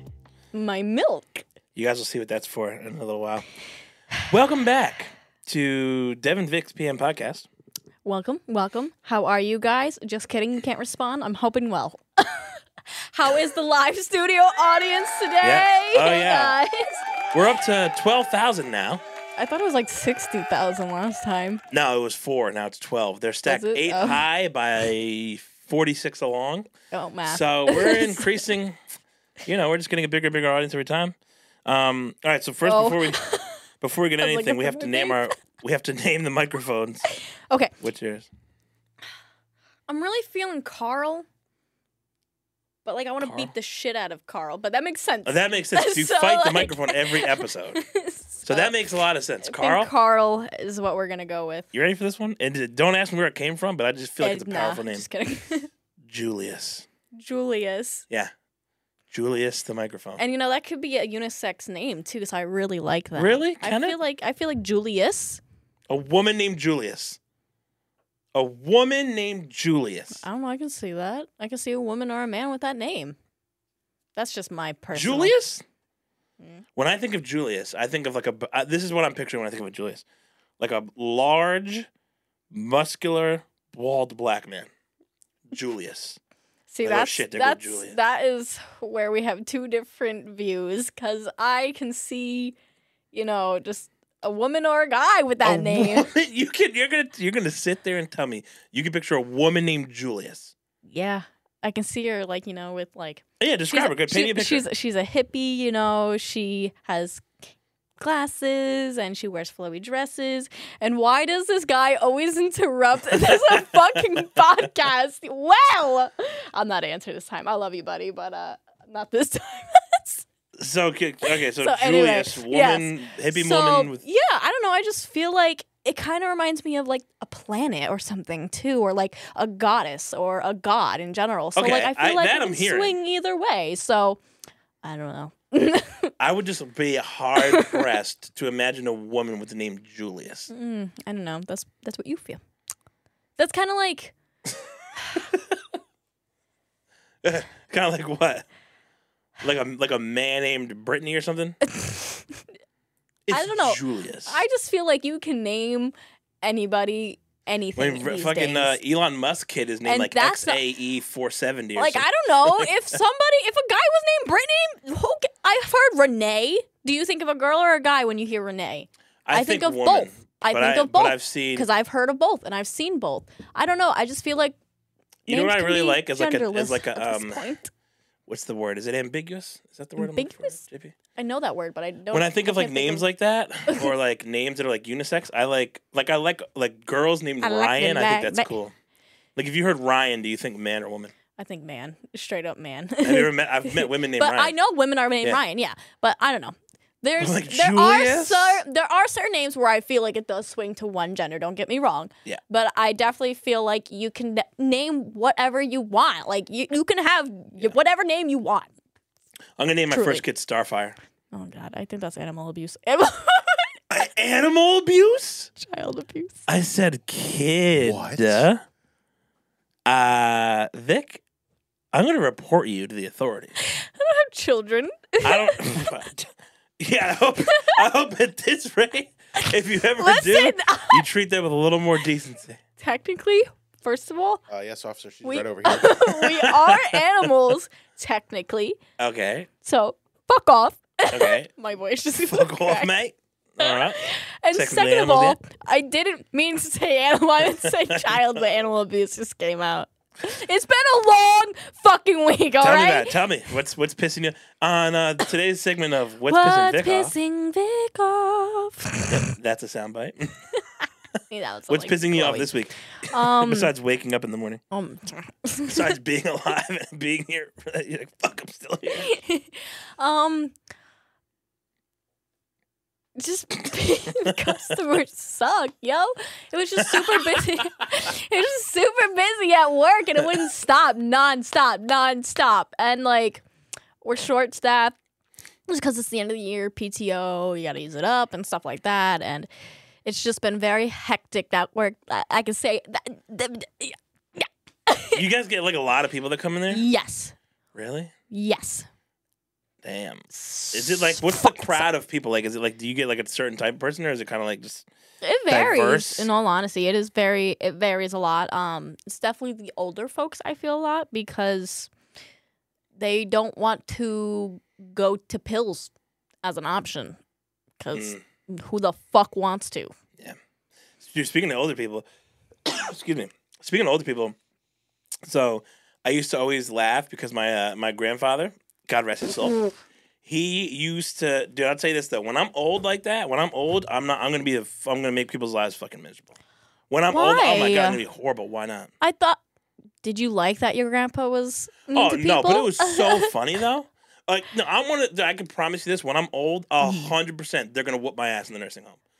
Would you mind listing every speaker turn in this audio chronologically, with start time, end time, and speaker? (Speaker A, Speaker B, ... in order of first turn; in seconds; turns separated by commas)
Speaker A: 0.5-1.5, Speaker B: 1.8-3.5, Speaker B: 4.2-7.5, Speaker A: 8.1-12.6, Speaker A: 13.1-17.1, Speaker B: 15.4-16.6, Speaker B: 17.3-19.0, Speaker A: 19.4-21.6, Speaker B: 21.7-26.7, Speaker A: 23.4-24.2, Speaker A: 26.9-28.3, Speaker B: 27.3-28.8, Speaker B: 29.5-33.2, Speaker A: 32.6-33.6, Speaker B: 33.8-37.1, Speaker A: 34.2-35.3, Speaker A: 37.4-37.7, Speaker B: 37.8-38.3, Speaker A: 39.9-41.3, Speaker A: 42.9-48.7, Speaker B: 43.2-43.5, Speaker B: 45.2-47.8, Speaker B: 48.5-49.9, Speaker A: 49.4-51.7, Speaker B: 51.7-55.0, Speaker A: 54.2-55.7, Speaker B: 56.1-56.9, Speaker A: 57.1-58.0, Speaker B: 59.1-60.2, Speaker A: 60.2-65.4, Speaker B: 63.2-64.0, Speaker B: 65.9-67.2, Speaker B: 68.3-70.2, Speaker A: 70.2-73.2, Speaker A: 74.2-75.3, Speaker B: 74.9-75.6, Speaker B: 76.8-80.0, Speaker B: 80.6-81.9, Speaker B: 82.5-84.7, Speaker B: 85.5-86.2, Speaker A: 86.7-92.6, Speaker B: 86.8-88.0, Speaker A: 93.1-96.1, Speaker B: 95.4-100.5, Speaker A: 100.9-107.3, Speaker B: 103.4-104.7, Speaker A: 108.0-120.3, Speaker B: 113.2-113.8, Speaker B: 120.6-124.0, Speaker A: 121.3-134.2, Speaker B: 131.6-133.0, Speaker A: 134.8-136.1, Speaker B: 136.2-140.5, Speaker A: 137.4-137.8, Speaker A: 140.5-142.4, Speaker A: 143.4-144.1, Speaker B: 145.1-145.6, Speaker B: 147.2-148.4, Speaker B: 149.4-151.6, Speaker A: 151.7-152.4, Speaker B: 153.3-154.4, Speaker A: 153.3-158.8, Speaker B: 157.8-163.0, Speaker A: 159.8-160.6, Speaker A: 161.8-174.6, Speaker B: 169.3-171.7, Speaker B: 175.3-177.5, Speaker A: 175.3-177.7, Speaker B: 178.3-180.9, Speaker A: 180.0-180.6, Speaker A: 181.2-183.1, Speaker B: 182.1-188.7, Speaker A: 187.4-188.6, Speaker B: 189.4-191.1, Speaker A: 191.4-208.7, Speaker B: 193.0-194.6, Speaker B: 197.2-198.6, Speaker B: 209.6-211.0, Speaker A: 209.9-210.2, Speaker A: 211.3-213.8, Speaker B: 213.9-215.5, Speaker A: 215.6-216.4, Speaker B: 216.5-218.6, Speaker C: 217.8-218.5, Speaker B: 219.9-221.2, Speaker B: 221.9-223.5, Speaker A: 223.6-225.9, Speaker B: 225.2-232.6, Speaker A: 227.5-227.8, Speaker A: 230.0-231.1, Speaker A: 232.8-234.4, Speaker C: 234.5-236.0, Speaker A: 235.2-238.8, Speaker B: 236.1-237.3, Speaker B: 239.0-239.5, Speaker A: 239.6-242.9, Speaker B: 241.1-241.5, Speaker B: 242.2-245.4, Speaker A: 243.6-253.2, Speaker B: 247.4-248.4, Speaker B: 252.6-257.1, Speaker A: 256.3-259.2, Speaker B: 259.1-260.4, Speaker A: 260.6-262.5, Speaker B: 261.7-264.6, Speaker A: 263.1-263.7, Speaker A: 264.7-266.0, Speaker B: 265.7-269.1, Speaker A: 268.9-270.5, Speaker A: 273.2-283.4, Speaker B: 276.9-277.6, Speaker A: 284.0-285.0, Speaker A: 285.7-289.5, Speaker A: 290.1-295.2, Speaker B: 295.1-296.9, Speaker A: 296.7-297.3, Speaker B: 297.8-298.1, Speaker A: 298.3-298.9, Speaker B: 299.8-304.9, Speaker A: 300.3-301.9, Speaker A: 305.2-311.9, Speaker B: 305.5-306.3, Speaker A: 313.0-315.9, Speaker A: 316.4-317.2, Speaker A: 317.8-319.9, Speaker B: 317.9-318.2, Speaker B: 321.0-322.1, Speaker B: 322.7-324.4, Speaker B: 325.2-329.6, Speaker B: 330.2-336.3, Speaker B: 336.9-338.9, Speaker A: 337.1-338.0, Speaker A: 339.0-339.4, Speaker A: 340.0-343.3, Speaker B: 341.9-349.0, Speaker A: 346.8-347.1